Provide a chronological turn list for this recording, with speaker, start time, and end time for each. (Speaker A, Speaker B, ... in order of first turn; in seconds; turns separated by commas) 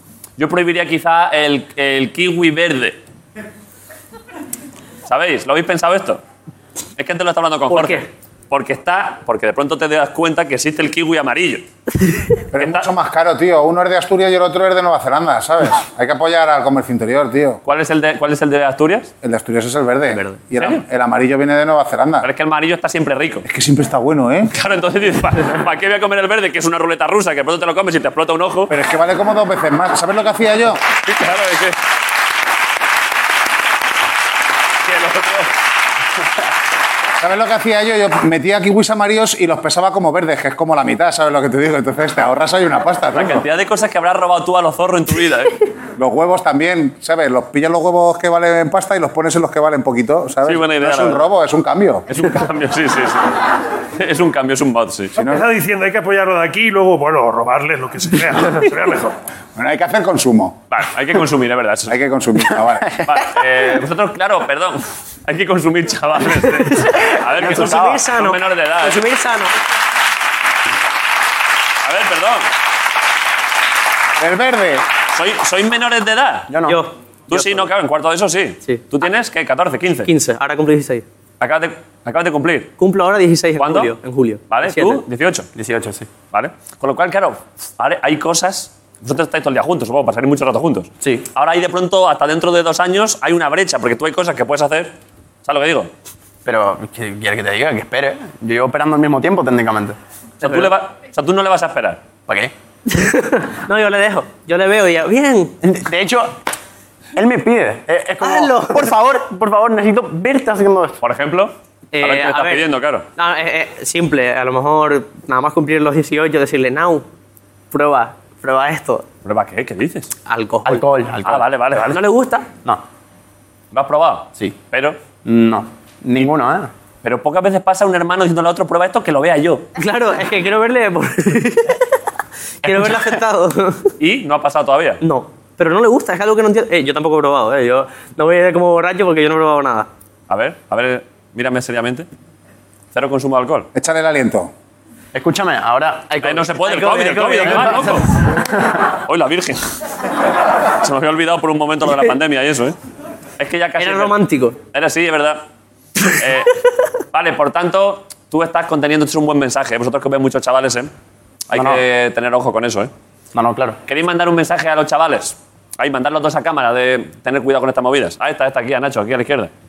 Speaker A: 0.4-3.0, Speaker A: 5.1-6.2, Speaker A: 7.0-11.6, Speaker B: 7.7-8.1, Speaker C: 12.5-17.6, Speaker A: 12.6-12.8, Speaker A: 17.6-19.1, Speaker C: 19.2-22.3, Speaker B: 20.1-20.4, Speaker A: 20.6-20.8, Speaker A: 22.2-23.4, Speaker C: 23.4-24.5, Speaker A: 24.5-28.7, Speaker C: 28.7-30.8, Speaker A: 31.0-31.8, Speaker A: 34.8-35.5, Speaker C: 37.2-43.4, Speaker A: 43.1-45.6, Speaker C: 46.0-52.0, Speaker A: 50.4-51.2, Speaker A: 52.1-53.4, Speaker A: 54.0-55.1, Speaker C: 55.2-55.5, Speaker D: 55.2-59.1, Speaker C: 59.5-60.5, Speaker A: 60.7-62.0, Speaker C: 61.9-62.9, Speaker A: 63.0-69.0, Speaker B: 66.4-69.5, Speaker E: 67.4-68.0, Speaker A: 71.8-72.5, Speaker C: 74.2-74.8, Speaker A: 75.1-76.5, Speaker E: 76.5-76.8, Speaker A: 77.3-80.1, Speaker B: 80.0-81.0, Speaker A: 81.4-82.7, Speaker B: 82.8-85.0, Speaker A: 83.6-83.9, Speaker A: 84.5-85.5, Speaker E: 85.5-86.1, Speaker A: 86.3-94.9, Speaker E: 91.0-91.2, Speaker A: 95.4-95.9, Speaker E: 96.4-100.0, Speaker A: 100.4-102.0, Speaker B: 100.4-100.7, Speaker B: 102.9-105.5, Speaker E: 105.6-106.3, Speaker E: 107.1-111.0, Speaker B: 108.2-108.9, Speaker A: 111.0-113.0, Speaker B: 111.9-117.0, Speaker B: 117.7-119.0, Speaker A: 119.2-120.1, Speaker B: 120.3-120.8, Speaker E: 120.6-121.5, Speaker A: 121.2-122.0, Speaker B: 121.8-122.5, Speaker A: 123.7-125.0, Speaker E: 125.2-126.7, Speaker A: 127.0-129.6, Speaker B: 129.8-131.8, Speaker B: 132.6-133.9, Speaker A: 134.0-135.0, Speaker B: 135.0-139.9, Speaker A: 140.3-142.1, Speaker A: 142.9-143.7, Speaker C: 143.7-144.5, Speaker E: 145.1-146.1, Speaker B: 146.1-148.0, Speaker A: 146.2-148.1, Speaker A: 149.1-149.6, Speaker A: 150.8-152.8, Speaker A: 153.4-154.1, Speaker B: 153.8-154.6, Speaker A: 154.7-155.4, Speaker A: 156.2-156.5, Speaker A: 157.1-160.9, Speaker A: 161.5-162.9, Speaker E: 161.5-161.8, Speaker E: 163.3-163.8, Speaker A: 163.9-169.5